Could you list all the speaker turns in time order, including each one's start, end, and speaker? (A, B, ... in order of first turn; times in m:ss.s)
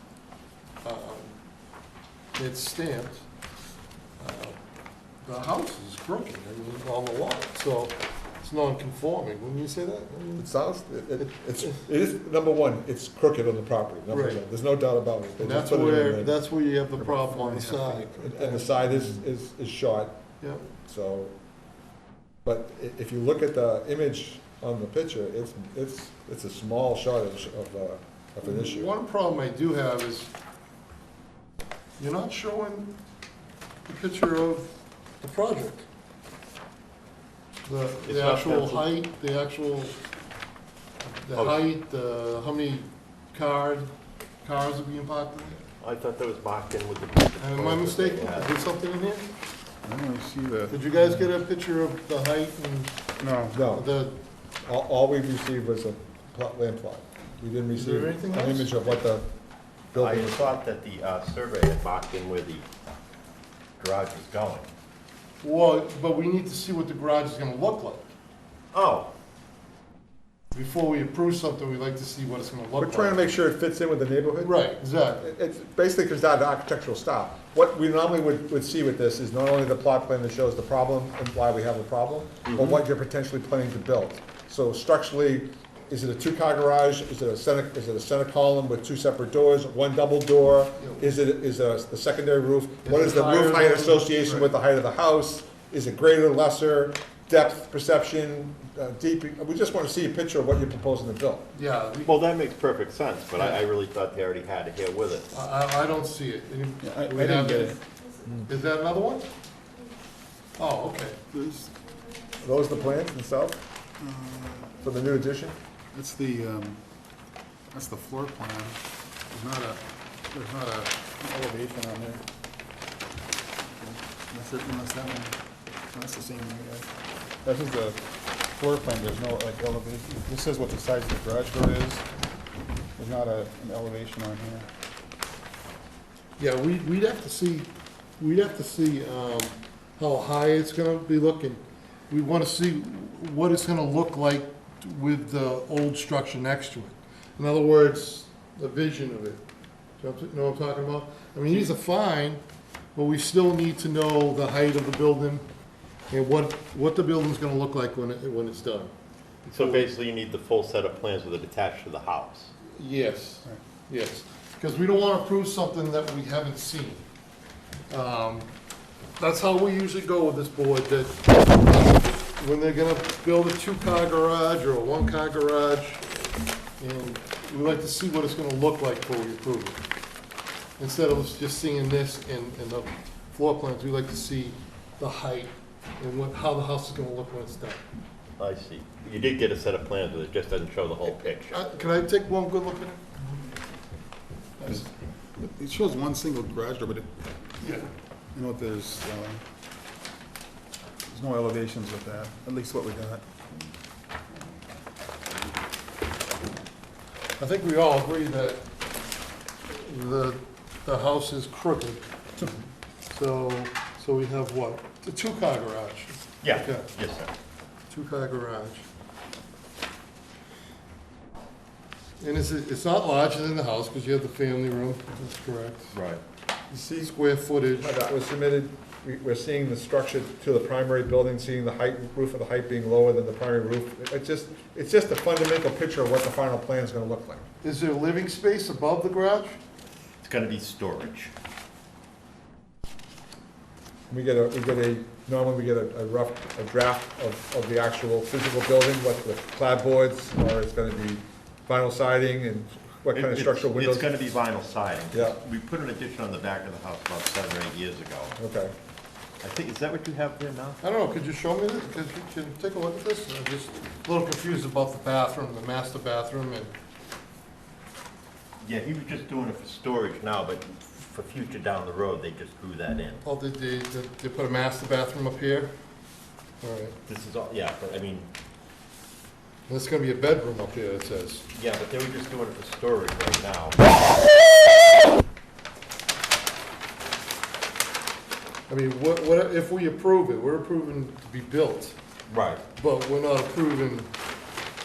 0:00.8-0:01.4 A
0:02.3-0:03.2 A
0:04.2-0:04.6 A
0:05.2-0:10.5 A
0:10.4-0:16.3 B
0:14.1-0:14.4 A
0:15.4-0:18.7 A
0:17.3-0:18.0 C
0:17.9-0:20.1 B
0:20.4-0:20.6 A
0:20.8-0:21.3 B
0:22.4-0:28.9 B
0:28.4-0:30.3 A
0:32.0-0:33.0 A
0:33.8-0:35.8 A
0:37.6-0:40.0 A
0:38.0-0:38.8 D
0:41.2-0:43.9 A
0:41.3-0:41.7 D
0:44.4-0:45.6 A
0:45.8-0:48.6 D
0:47.4-0:49.3 A
0:49.8-0:50.8 C
0:50.7-0:53.0 A
0:53.2-0:53.6 C
0:53.5-0:54.2 A
0:53.5-0:53.9 B
0:54.6-0:59.2 B
0:57.8-0:59.1 A
0:59.9-1:00.6 B
1:00.0-1:02.6 D
1:03.8-1:04.7 D
1:05.4-1:08.1 A
1:08.7-1:09.1 D
1:10.5-1:13.3 A
1:12.8-1:14.6 B
1:14.4-1:15.3 A
1:15.2-1:41.5 B
1:22.4-1:22.8 D
1:30.8-1:31.1 A
1:32.8-1:34.5 A
1:41.5-1:42.2 A
1:42.0-1:45.3 D
1:45.3-1:47.8 A
1:46.8-1:47.8 C
1:48.4-1:49.2 A
1:50.6-1:51.2 A
1:51.3-1:51.7 C
1:52.4-1:53.6 B
1:54.0-1:54.8 C
1:54.8-1:55.6 B
1:55.9-1:56.8 C
1:57.7-2:02.2 C
2:03.6-2:05.4 C
2:05.9-2:06.9 C
2:07.4-2:12.0 C
2:13.0-2:14.7 C
2:16.4-2:29.4 A
2:30.0-2:32.4 A
2:32.9-2:35.4 A
2:36.1-2:38.9 A
2:39.4-2:39.9 A
2:39.5-2:42.5 D
2:42.8-2:47.0 A
2:47.9-2:48.5 A
2:49.2-2:56.0 A
2:56.8-2:59.8 A
3:00.8-3:07.8 A
3:08.4-3:11.6 D
3:11.2-3:13.2 A
3:14.6-3:14.9 A
3:15.4-3:17.2 C
3:17.6-3:17.9 A
3:18.3-3:19.4 C
3:21.1-3:23.3 C
3:27.4-3:28.6 A
3:29.7-3:32.0 A
3:33.1-3:36.9 A
3:36.4-3:37.3 D
3:37.9-3:38.8 A
3:42.2-3:45.9 A
3:45.9-3:46.2 D
3:46.7-3:48.0 A
3:47.8-3:57.4 B
3:57.6-3:59.6 A
4:00.2-4:01.3 D
4:04.1-4:14.1 B
4:13.1-4:18.3 D
4:15.1-4:15.4 B
4:18.4-4:18.7 B
4:19.4-4:20.8 D
4:20.8-4:26.7 A
4:28.6-4:33.2 D
4:33.2-4:35.7 A
4:36.6-4:37.0 A
4:37.1-4:38.3 D
4:39.7-4:41.5 A
4:41.5-4:43.9 D
4:48.7-4:52.0 A
4:52.3-4:52.6 D
4:52.7-4:54.1 A